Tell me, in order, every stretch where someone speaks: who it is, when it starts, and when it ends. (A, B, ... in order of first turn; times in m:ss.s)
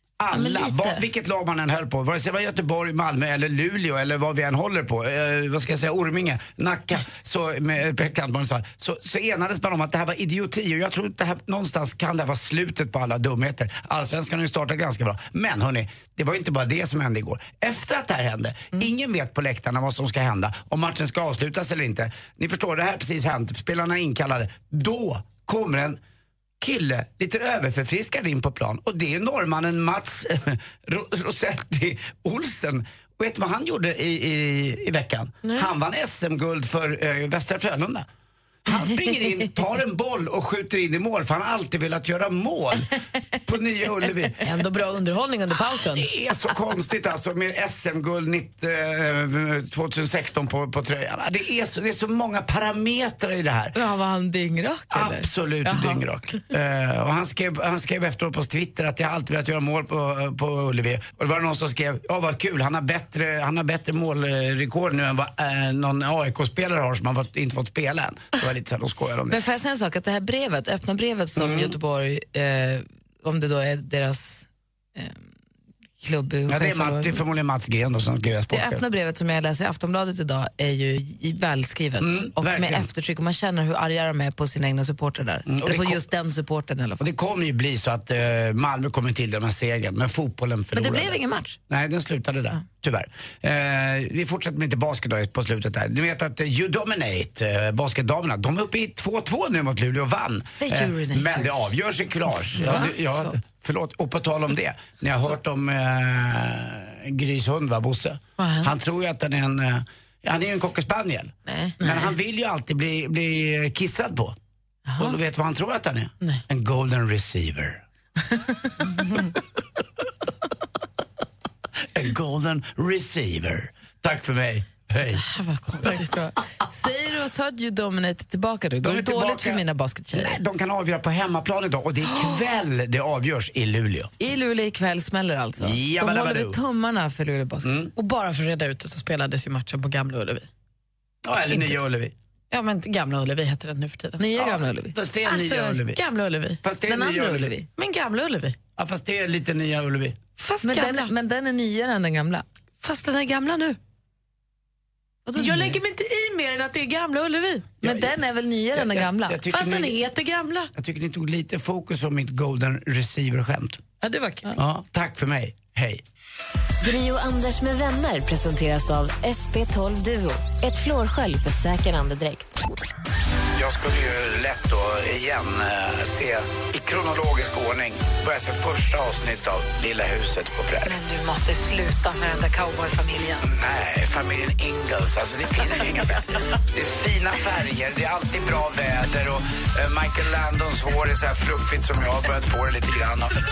0:00.2-0:26.0 A
0:00.3-0:01.0 B
0:26.6-0:38.0 A
0:35.4-0:35.7 C
0:38.7-0:42.9 A
0:43.5-0:44.4 A
0:44.4-0:46.1 C
0:45.8-0:53.7 A
0:53.7-0:56.0 B
0:54.9-1:09.4 A
1:09.3-1:15.2 B
1:11.3-1:11.8 A
1:16.0-1:17.2 B
1:16.5-1:18.8 A
1:18.5-1:27.0 B
1:22.0-1:22.9 A
1:25.4-1:26.0 A
1:27.0-1:54.3 A
1:30.7-1:31.6 B
1:40.6-1:41.7 B
1:42.3-1:43.4 B
1:51.4-1:52.1 B
1:54.9-1:55.2 B
1:55.0-1:57.8 A
2:01.9-2:05.2 A
2:05.3-2:06.3 C
2:05.8-2:10.4 B
2:08.8-2:14.1 A
2:12.0-2:12.5 C
2:14.2-2:17.7 B
2:15.6-2:16.6 A
2:17.6-2:17.9 A
2:17.9-2:20.5 C
2:21.2-2:22.1 A
2:21.5-2:21.8 C
2:22.5-2:24.4 C
2:24.2-2:24.9 B
2:24.4-2:26.0 A
2:25.2-2:26.6 C
2:26.6-2:27.6 A
2:26.9-2:27.7 B
2:27.7-2:28.6 C
2:28.8-2:30.2 A
2:30.4-2:31.1 C
2:30.6-2:32.4 B
2:32.8-2:33.8 C
2:35.3-2:35.8 B
2:35.3-2:37.8 C
2:37.8-2:39.4 B
2:37.8-2:38.1 A
2:38.7-2:40.0 A
2:39.5-2:40.7 C
2:40.7-2:43.8 A
2:44.0-2:44.6 C
2:44.6-2:46.0 A
2:46.8-2:52.6 D
2:53.5-3:01.0 A
3:00.8-3:03.4 B
3:03.4-3:13.3 A